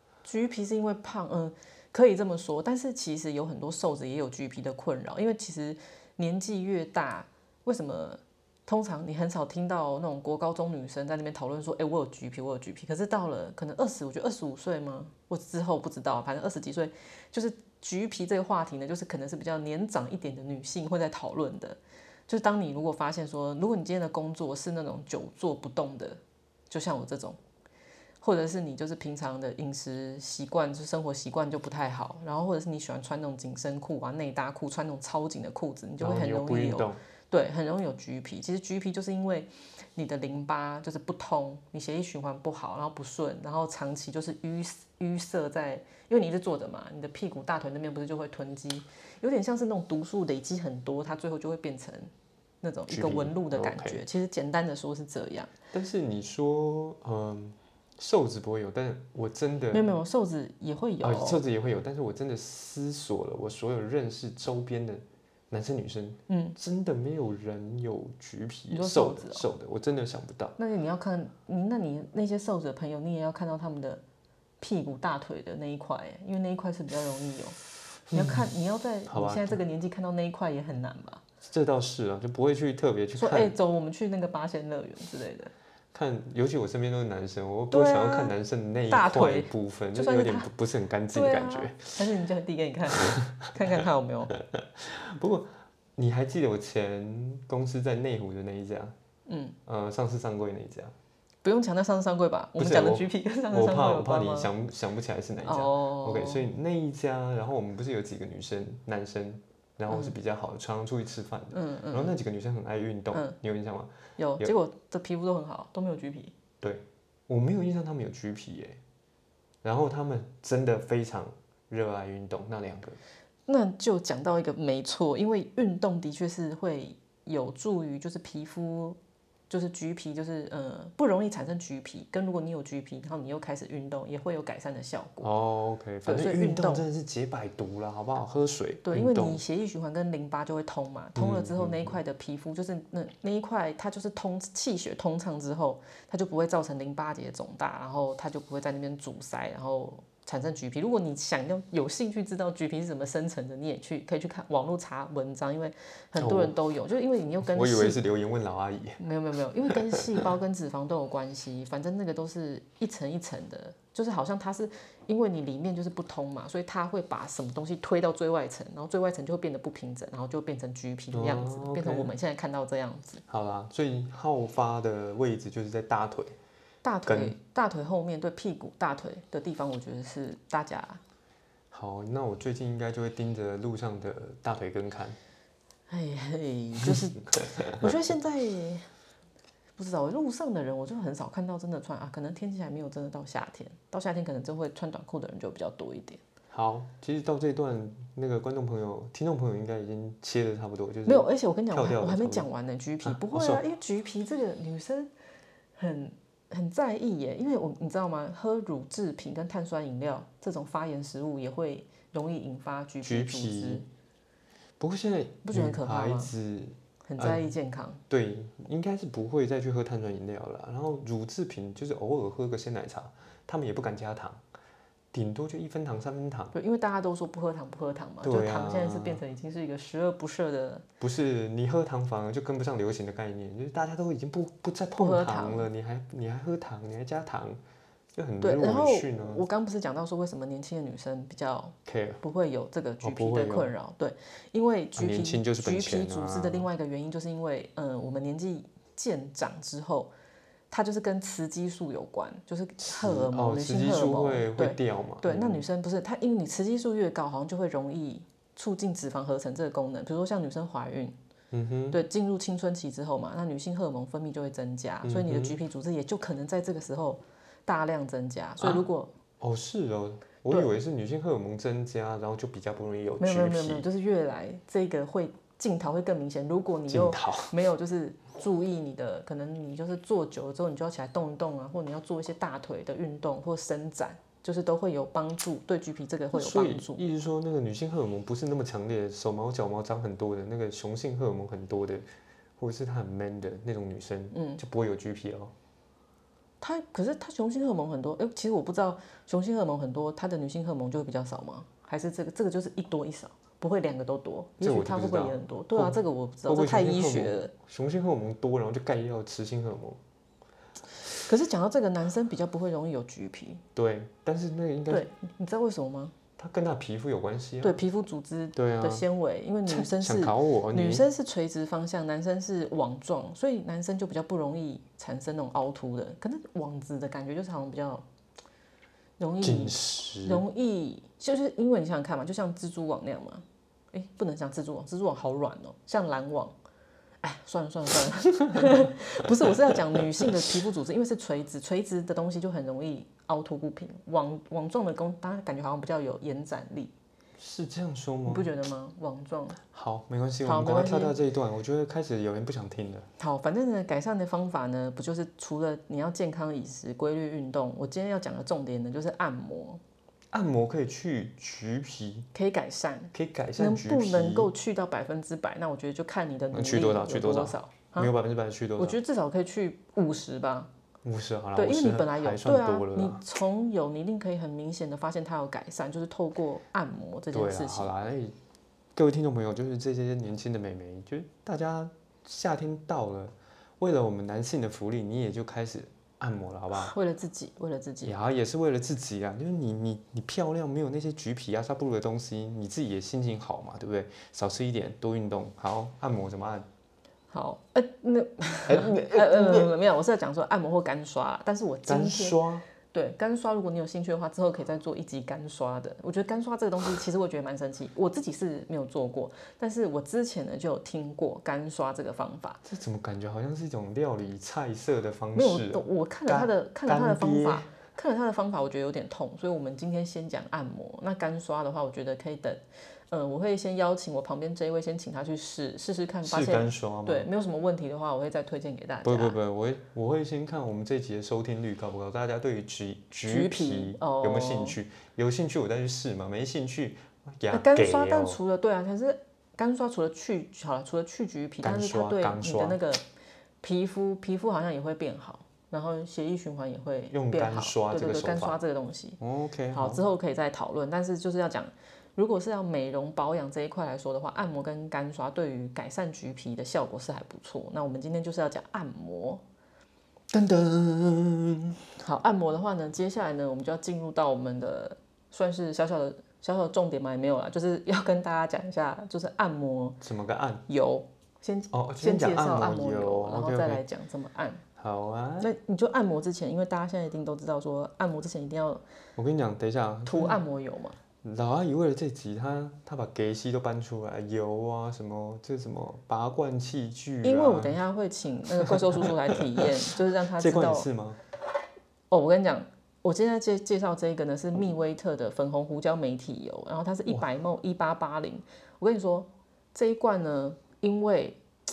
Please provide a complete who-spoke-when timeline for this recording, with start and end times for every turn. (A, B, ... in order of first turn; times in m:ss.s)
0:00.2-0:27.4 A
0:28.2-0:52.1 A
0:36.0-0:37.0 B
0:52.6-0:55.5 A
0:52.9-0:54.0 B
0:55.7-0:59.9 B
0:59.7-1:01.4 A
1:01.0-1:10.6 B
1:06.3-1:06.6 A
1:08.7-1:09.4 A
1:10.6-1:14.0 A
1:14.6-1:17.6 A
1:18.1-1:18.5 B
1:18.1-1:21.2 A
1:19.1-1:19.6 B
1:21.4-1:23.5 B
1:23.2-1:25.5 A
1:25.9-1:32.0 B
1:27.7-1:28.3 A
1:28.9-1:30.5 A
1:31.1-1:34.3 A
1:34.5-1:39.0 B
1:39.3-1:39.6 A
1:39.7-1:40.9 B
1:41.4-1:44.5 A
1:42.6-1:54.5 B
1:45.4-1:46.4 A
1:51.5-1:52.1 A
1:54.2-1:56.3 A
1:56.6-1:58.8 B
1:59.6-2:03.0 B
2:03.5-2:09.0 A
2:09.5-2:15.3 A
2:15.2-2:19.4 B
2:16.1-2:16.8 A
2:18.8-2:38.0 A
2:21.2-2:22.0 B
2:36.2-2:36.6 B
2:37.4-2:39.0 B
2:39.0-2:53.2 A
2:39.7-2:40.1 B
2:51.1-2:52.1 B
2:53.3-2:56.4 B
2:56.8-3:01.0 A
2:57.1-2:57.4 B
3:01.7-3:05.2 B
3:05.9-3:08.9 A
3:07.4-3:07.9 B
3:09.8-3:16.2 A
3:16.5-3:22.5 B
3:21.1-3:25.1 A
3:23.0-3:23.6 B
3:25.8-3:33.8 A
3:33.0-3:33.9 B
3:34.8-3:37.5 B
3:35.4-3:36.3 A
3:37.0-3:38.0 A
3:38.1-3:44.4 B
3:45.1-3:46.5 B
3:46.5-3:50.8 A
3:48.2-3:49.2 B
3:51.0-3:57.6 B
3:55.0-3:55.7 A
3:58.2-3:59.4 B
3:58.4-4:10.1 A
4:01.9-4:02.2 B
4:03.0-4:03.7 B
4:05.0-4:06.7 B
4:10.7-4:21.2 A
4:12.8-4:15.6 B
4:21.5-4:22.0 B
4:21.9-4:29.1 A
4:25.0-4:25.6 B
4:29.4-4:33.9 B
4:33.2-4:47.0 A
4:36.9-4:37.6 B
4:46.3-4:52.1 B
4:52.6-4:55.5 B
4:54.3-4:54.6 A
4:56.6-5:07.5 A
5:04.6-5:10.0 B
5:11.2-5:13.6 A
5:13.8-5:15.1 B
5:14.9-5:16.2 A
5:16.4-5:17.8 B
5:17.6-5:28.0 A
5:18.6-5:19.0 B
5:19.7-5:21.1 B
5:29.2-5:36.6 A
5:29.4-5:30.4 B
5:37.2-5:46.9 A
5:47.4-5:48.5 B
5:48.3-5:49.6 A
5:49.7-5:53.1 B
5:50.4-5:51.2 A
5:53.2-5:59.8 A
6:00.3-6:02.3 B
6:02.3-6:08.1 A
6:03.1-6:04.5 B
6:06.5-6:09.0 B
6:08.8-6:10.7 A
6:11.0-6:13.2 B
6:11.6-6:17.9 A
6:17.3-6:18.4 B
6:19.0-6:26.9 B
6:26.7-6:28.2 A
6:28.0-6:36.7 B
6:37.3-6:52.6 A
6:38.7-6:39.7 B
6:41.9-6:42.6 B
6:52.6-6:57.7 B
6:55.3-7:09.4 A
7:06.2-7:07.3 B
7:09.0-7:18.4 B
7:13.3-7:14.8 A
7:17.5-7:23.0 A
7:21.6-7:22.8 B
7:23.6-7:29.2 A
7:27.1-7:28.6 B
7:29.2-7:30.0 B
7:29.7-7:39.4 A
7:40.3-7:41.8 B
7:42.0-7:50.0 A
7:50.0-7:50.6 B
7:50.7-7:54.6 A
7:51.7-7:53.8 B
7:54.8-7:55.5 B
7:55.4-7:58.8 A
7:59.2-8:00.4 B
8:00.1-8:01.0 A
8:01.2-8:07.8 B
8:07.2-8:10.9 A
8:08.6-8:09.7 B
8:10.3-8:11.2 B
8:12.1-8:21.4 A